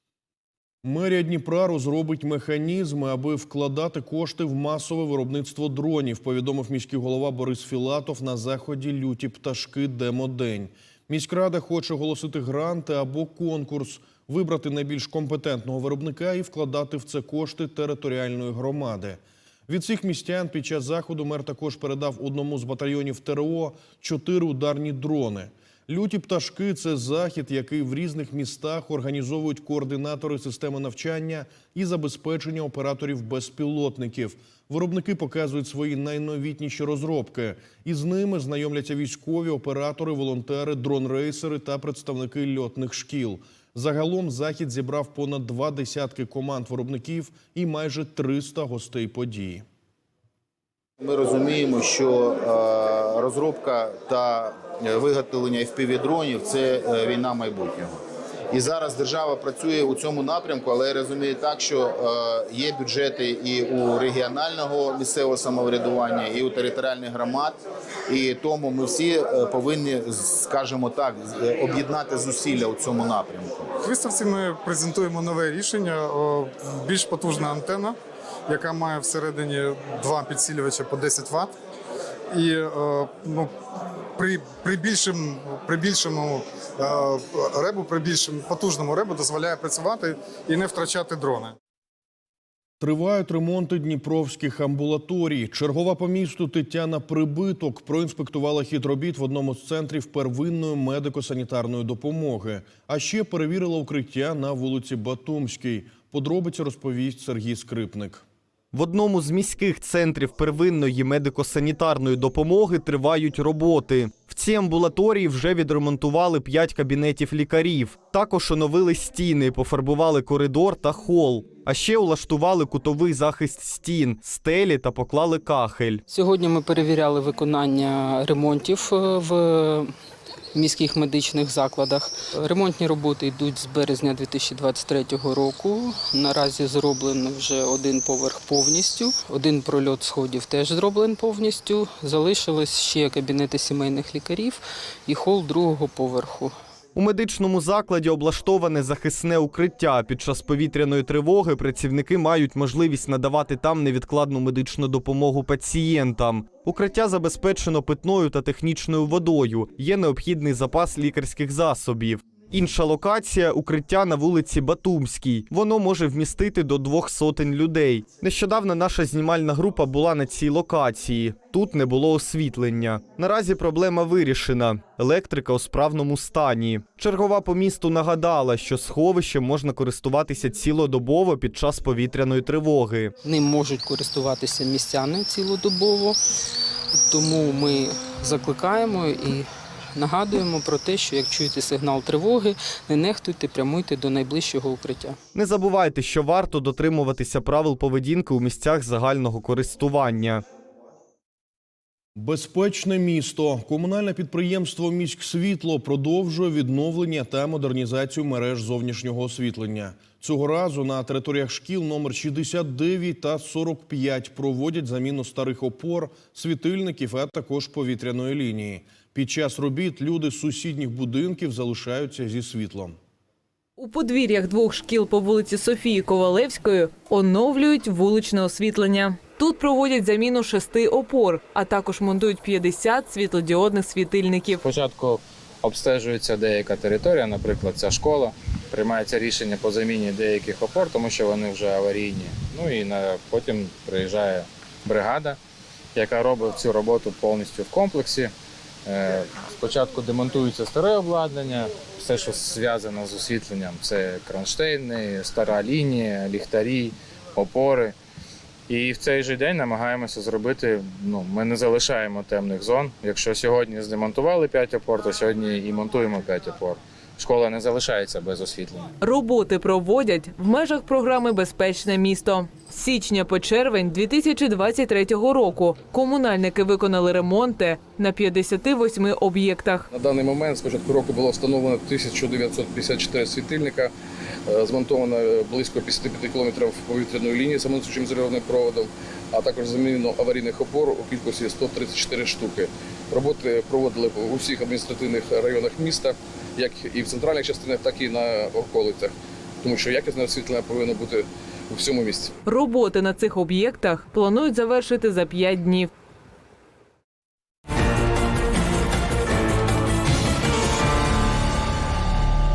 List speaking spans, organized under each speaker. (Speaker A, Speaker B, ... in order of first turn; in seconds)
Speaker A: 0.8-49.6, 92.8-108.2, 202.2-222.9
Speaker B: 51.0-58.0, 58.5-73.7
Speaker C: 73.8-78.0, 78.5-81.5, 82.3-83.5, 84.2-91.5
Speaker D: 108.7-126.0, 146.9-183.1, 195.3-200.4
Speaker E: 126.1-129.9, 130.5-146.6, 183.2-186.2, 186.9-195.2
Speaker F: 223.8-234.6, 269.0-279.9, 302.4-305.9
Speaker G: 234.6-245.4, 245.9-248.3, 248.8-257.9, 258.7-268.9
Speaker H: 280.0-283.9, 284.6-299.1, 299.6-301.2, 301.7-302.3